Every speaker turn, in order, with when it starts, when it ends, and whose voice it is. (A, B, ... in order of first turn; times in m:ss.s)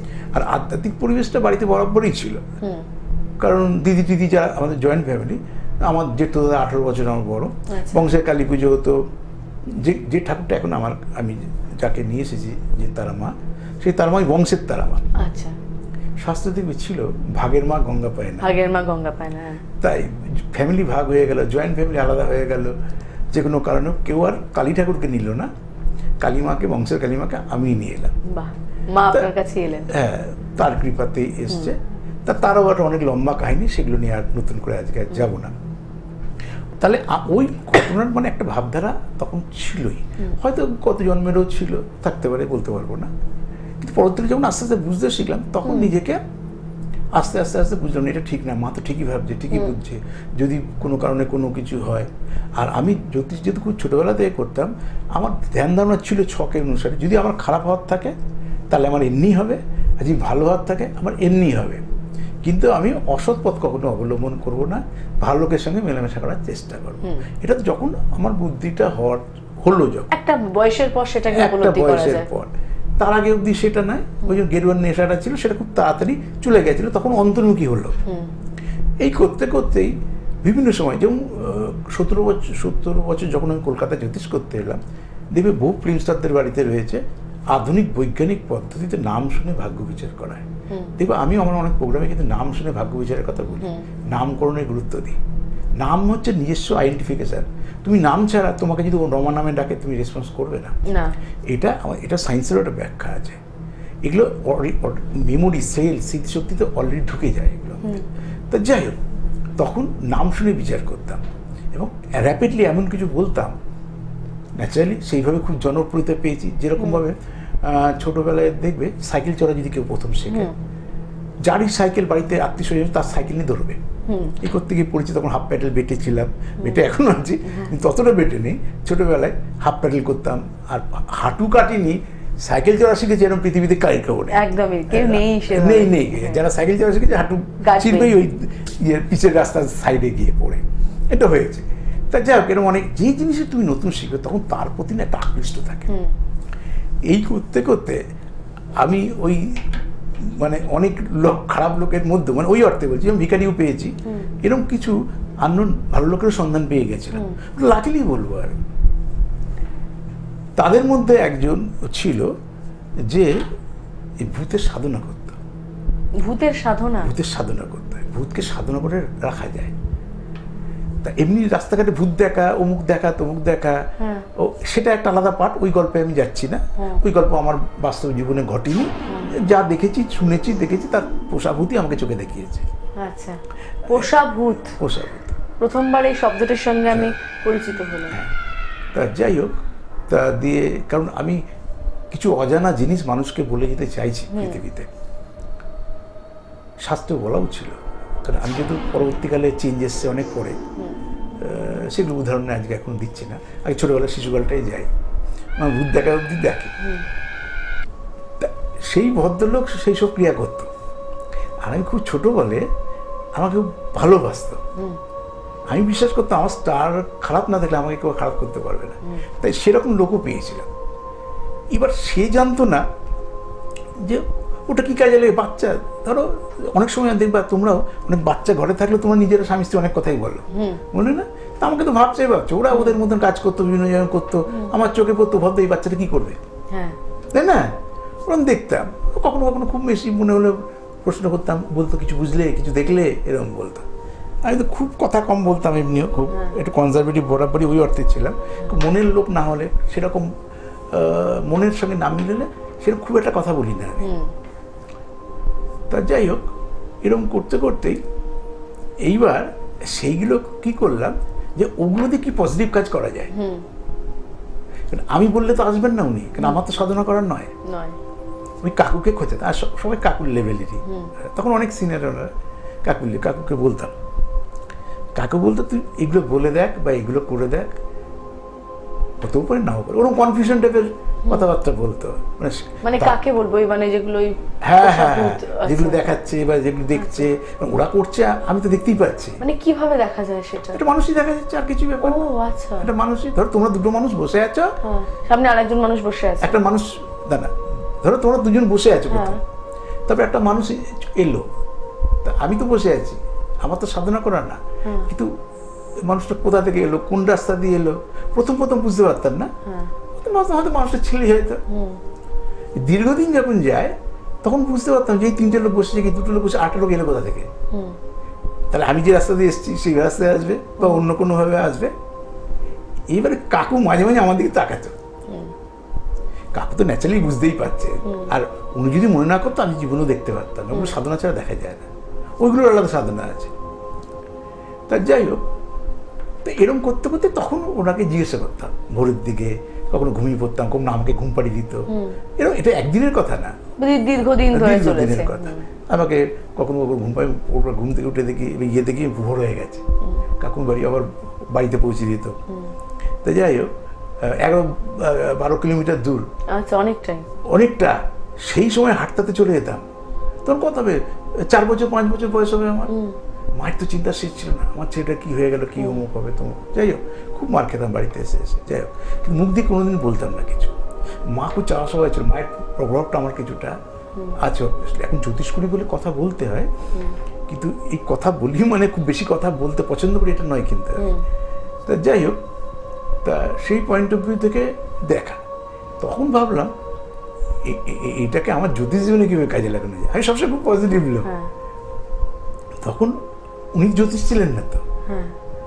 0:00.3-0:02.4 A
0:03.4-0:09.0 A
0:07.7-0:08.1 B
0:09.7-0:15.1 A
0:15.2-0:15.5 B
0:16.2-0:18.5 A
0:18.4-0:19.6 B
0:19.8-0:22.7 A
0:23.3-0:25.5 A
0:26.2-0:28.1 A
0:28.3-0:29.9 B
0:29.9-0:35.6 A
0:36.8-0:43.1 A
0:43.8-0:46.2 A
0:45.6-0:45.9 B
0:47.1-0:58.1 A
0:58.7-1:01.8 A
1:02.4-1:10.1 A
1:10.1-1:12.3 B
1:11.3-1:17.9 A
1:19.0-1:24.8 A
1:25.3-1:30.4 A
1:30.7-1:30.9 B
1:31.0-1:35.2 A
1:33.6-1:33.8 B
1:35.8-1:40.7 A
1:40.9-1:41.1 B
1:41.5-1:43.4 A
1:44.0-1:47.9 A
1:48.5-1:49.0 A
1:49.6-1:53.6 A
1:54.6-2:00.5 A
2:00.3-2:00.5 B
2:01.4-2:03.8 A
2:04.1-2:04.4 B
2:04.4-2:25.9 A
2:06.6-2:06.9 B
2:07.4-2:07.7 B
2:14.3-2:16.4 B
2:17.6-2:18.1 B
2:27.1-2:28.0 A
2:28.8-2:38.6 A
2:40.6-2:42.3 A
2:44.2-2:45.4 A
2:46.2-2:47.1 B
2:47.0-2:49.7 A
2:51.0-2:53.8 A
2:54.0-2:54.2 B
2:54.4-3:02.7 A
2:56.8-2:57.0 B
2:59.1-2:59.3 B
3:03.0-3:04.8 B
3:04.8-3:05.4 A
3:05.6-3:08.2 B
3:08.1-3:08.3 A
3:08.9-3:11.4 A
3:12.1-3:14.9 A
3:14.3-3:14.6 B
3:16.8-3:20.6 A
3:21.4-3:24.9 A
3:25.6-3:26.7 A
3:28.4-3:30.7 A
3:31.6-3:32.6 A
3:33.4-3:34.6 A
3:35.7-3:40.7 A
3:41.7-3:42.8 A
3:44.0-3:56.4 A
3:50.5-3:50.8 B
3:52.7-3:53.0 B
3:54.5-3:54.7 B
3:56.7-3:57.0 B
3:57.3-4:03.8 A
4:04.4-4:10.3 A
4:06.3-4:06.6 B
4:10.9-4:14.1 A
4:14.0-4:14.3 B
4:15.9-4:16.5 A
4:17.0-4:18.0 A
4:19.0-4:23.3 A
4:23.3-4:23.6 B
4:24.9-4:27.5 A
4:27.6-4:28.0 B
4:28.6-4:32.3 A
4:30.8-4:31.1 B
4:32.8-4:33.9 A
4:35.2-4:37.7 A
4:39.2-4:43.2 A
4:42.8-4:46.1 B
4:44.6-4:49.4 A
4:46.9-4:47.3 B
4:49.4-4:50.8 B
4:50.7-4:52.3 A
4:52.0-4:52.9 B
4:52.8-4:54.7 A
4:54.8-4:56.6 B
4:56.4-4:59.4 A
4:59.1-4:59.4 B
5:00.1-5:01.4 A
5:02.2-5:05.3 A
5:04.8-5:05.1 B
5:06.0-5:09.5 A
5:09.6-5:09.9 B
5:10.2-5:11.6 A
5:11.7-5:12.0 B
5:12.8-5:17.5 A
5:18.7-5:21.9 A
5:23.1-5:24.9 A
5:26.5-5:31.9 A
5:28.0-5:28.3 B
5:32.4-5:33.5 A
5:34.9-5:35.4 A
5:36.4-5:41.8 A
5:41.9-5:42.2 B
5:42.4-5:43.5 A
5:43.8-5:45.6 B
5:44.5-5:49.8 A
5:50.4-5:52.4 A
5:53.2-5:53.7 A
5:54.2-5:56.2 A
5:56.5-5:57.3 B
5:57.5-5:59.8 A
6:00.4-6:02.9 A
6:02.9-6:03.1 B
6:03.6-6:10.8 A
6:11.3-6:13.8 A
6:14.4-6:16.7 A
6:17.5-6:21.1 A
6:21.0-6:21.2 B
6:21.8-6:22.4 A
6:23.2-6:25.4 A
6:26.0-6:26.7 A
6:27.6-6:31.3 A
6:31.2-6:31.5 B
6:32.8-6:33.2 A
6:33.7-6:34.8 A
6:35.1-6:35.3 B